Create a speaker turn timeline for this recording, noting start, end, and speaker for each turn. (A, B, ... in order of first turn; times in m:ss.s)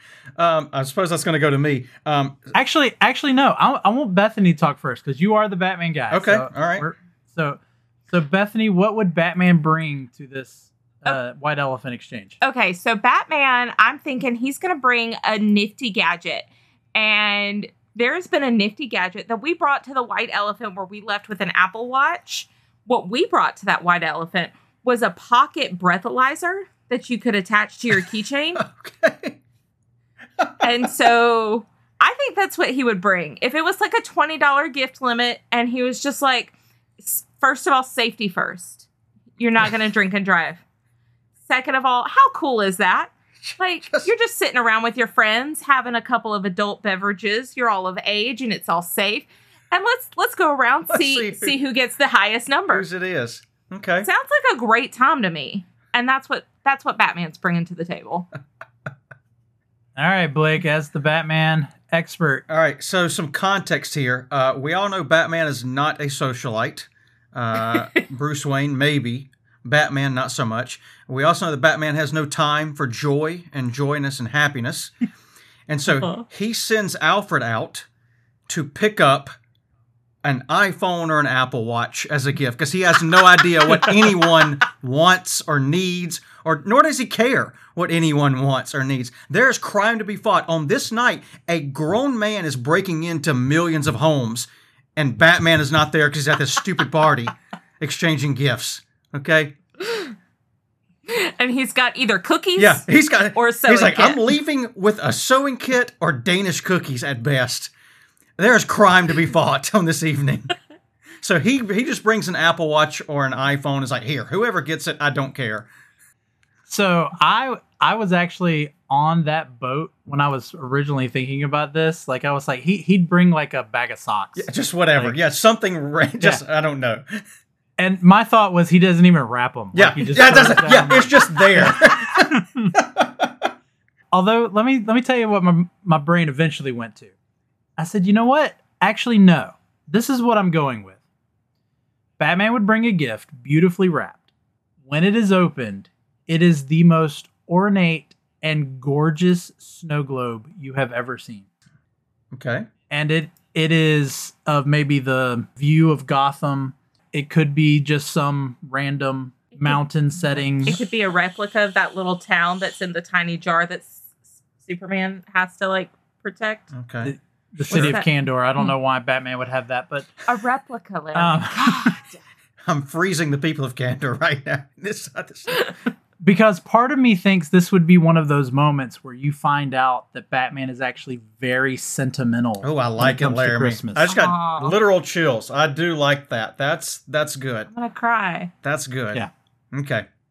0:00.4-0:02.5 A
0:02.5-0:12.4 B
0:06.1-0:06.9 A
0:12.4-0:28.6 C
0:28.6-0:29.4 A
0:30.4-0:30.9 A
0:30.6-0:38.9 C
0:39.4-0:40.6 C
0:41.5-0:52.9 C
0:43.4-0:44.1 A
0:50.9-0:51.6 A
0:52.7-0:54.1 A
0:54.0-0:58.3 C
1:00.0-1:02.4 B
1:02.5-1:14.9 A
1:15.7-1:17.9 A
1:18.5-1:19.3 A
1:20.2-1:39.6 A
1:39.8-1:40.1 C
1:41.1-1:44.3 C
1:42.6-1:47.7 A
1:48.4-1:50.5 A
1:51.2-1:55.7 A
1:56.7-2:05.2 B
2:04.4-2:07.2 A
2:07.8-2:12.7 B
2:09.7-2:13.5 A
2:14.1-2:17.1 B
2:17.8-2:21.0 B
2:22.2-2:24.3 B
2:24.8-2:31.5 B
2:32.3-2:32.7 A
2:32.9-2:40.8 B
2:40.6-2:44.1 C
2:44.6-2:46.7 C
2:46.7-2:47.2 A
2:47.0-2:50.2 B
2:47.7-2:48.7 C
2:47.7-2:48.0 A
2:50.3-2:52.2 C
2:51.2-2:52.0 B
2:52.6-2:55.7 A
2:56.2-3:04.1 B
3:02.6-3:07.7 A
3:04.1-3:04.8 C
3:07.7-3:08.5 C
3:08.6-3:10.1 A